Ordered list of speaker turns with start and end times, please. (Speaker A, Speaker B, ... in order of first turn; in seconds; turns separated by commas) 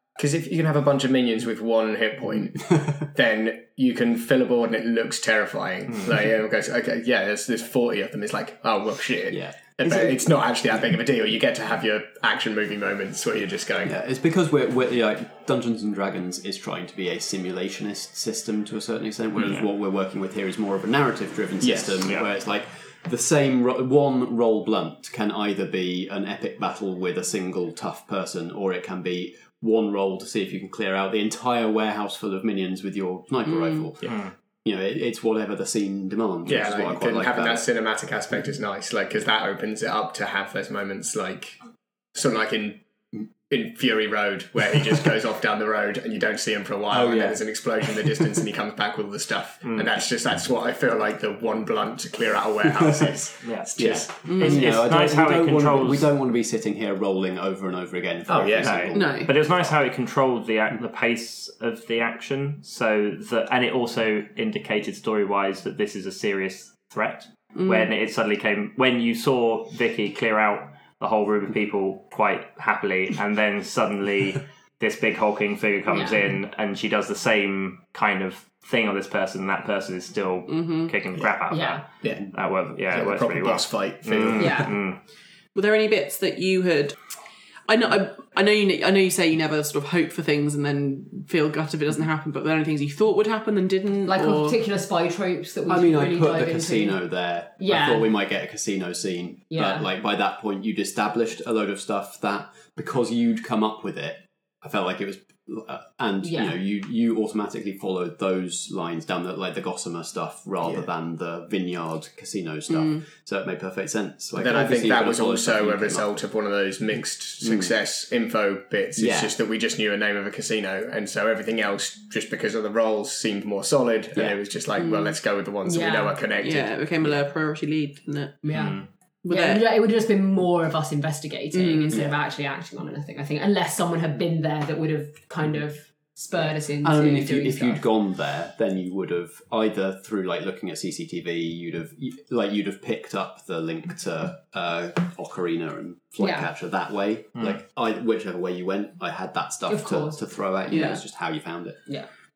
Speaker A: 0.2-13.9, Speaker B: 9.3-10.2, Speaker B: 13.9-37.7, Speaker A: 21.6-22.0, Speaker C: 22.0-22.3, Speaker D: 33.5-33.8, Speaker C: 34.1-34.3, Speaker A: 36.5-41.6, Speaker A: 42.1-42.8, Speaker A: 43.5-54.8, Speaker B: 46.9-47.4, Speaker C: 49.6-50.0, Speaker C: 53.4-53.7, Speaker B: 53.8-59.7, Speaker D: 54.2-54.5, Speaker C: 54.4-56.1, Speaker A: 58.3-58.8, Speaker C: 58.6-85.0, Speaker D: 58.9-59.3, Speaker D: 67.6-67.9, Speaker E: 75.9-76.2, Speaker D: 80.5-80.9, Speaker E: 81.5-81.8, Speaker A: 82.0-82.3, Speaker A: 82.8-84.7, Speaker E: 84.4-84.7, Speaker D: 85.5-87.0, Speaker D: 87.7-94.6, Speaker E: 94.1-97.0, Speaker B: 95.7-116.1, Speaker E: 97.6-98.2, Speaker E: 99.5-99.9, Speaker E: 106.2-106.6, Speaker A: 110.6-110.9, Speaker A: 114.3-126.8, Speaker B: 117.4-117.7, Speaker B: 119.0-119.3, Speaker D: 124.7-125.2, Speaker E: 125.7-126.2, Speaker D: 126.3-128.4, Speaker E: 128.4-137.9, Speaker C: 128.5-128.9, Speaker D: 129.2-129.7, Speaker D: 131.5-132.0, Speaker B: 131.9-132.2, Speaker B: 136.8-151.8, Speaker E: 146.2-146.5, Speaker E: 149.7-150.2, Speaker D: 150.7-151.0